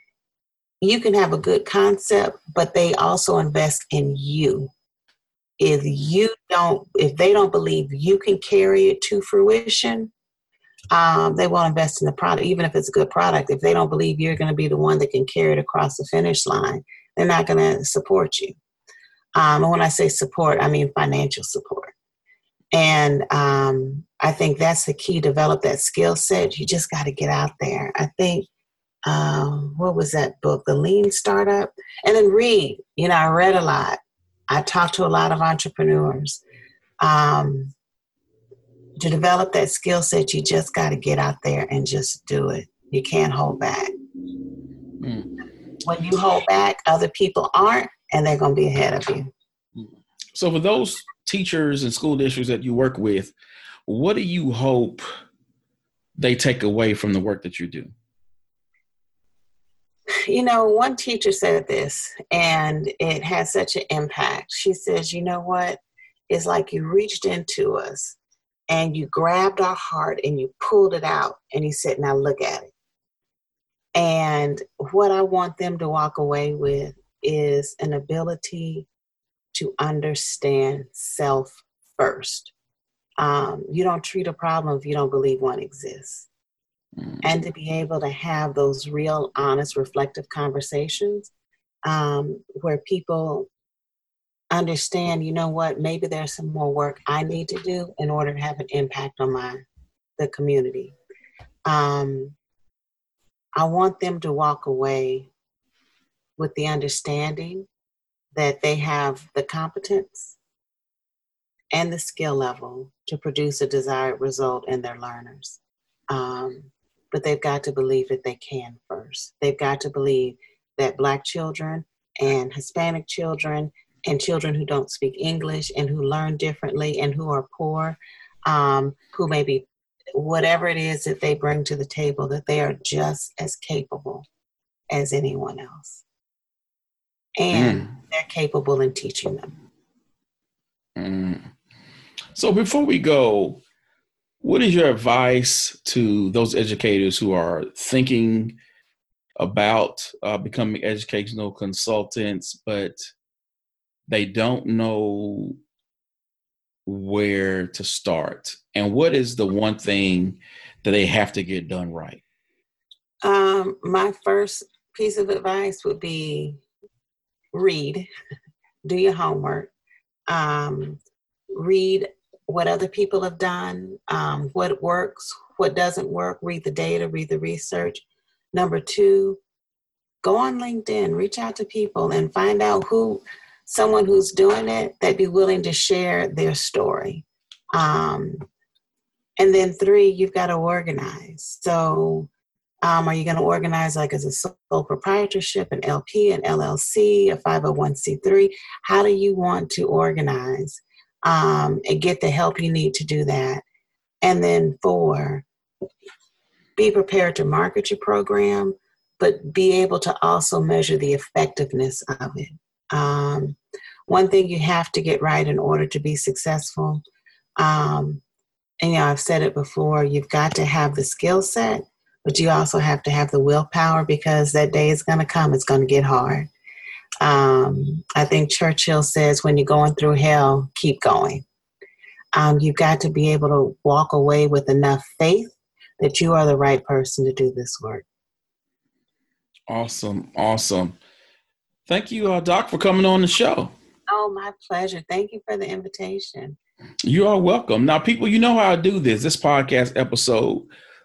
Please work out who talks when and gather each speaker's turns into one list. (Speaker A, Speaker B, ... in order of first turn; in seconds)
Speaker A: 0.8-4.7, 5.6-10.1, 10.9-18.6, 19.3-21.9, 22.7-28.5, 29.1-36.4, 37.0-37.7, 39.0-43.9, 45.8-49.3, 60.3-68.2, 68.7-72.7, 74.0-78.9, 79.5-82.5, 83.2-86.3, 87.2-91.3, 91.8-93.5, 94.5-99.6, 100.2-101.0, 101.7-102.3, 103.5-105.3, 106.4-107.7, 108.3-110.4, 111.7-115.6, 116.1-134.3, 134.9-136.0, 137.4-139.5, 163.2-166.6, 167.5-168.1, 168.8-169.7, 170.3-171.0, 171.5-179.4, 180.2-188.4, 189.4-192.3, 192.8-203.6, 204.2-205.4, 206.8-217.0, 217.6-218.2, 218.8-226.5, 227.2-231.4, 232.3-238.0, 244.1-246.6
Speaker B: 45.0-45.4, 49.8-53.3, 53.9-55.0, 56.2-57.9, 87.0-87.3, 137.5-137.9, 140.9-141.5, 142.3-143.6, 144.4-148.6, 149.4-153.0, 154.1-155.6, 156.8-162.2, 239.7-240.9, 241.9-243.7, 247.0-250.7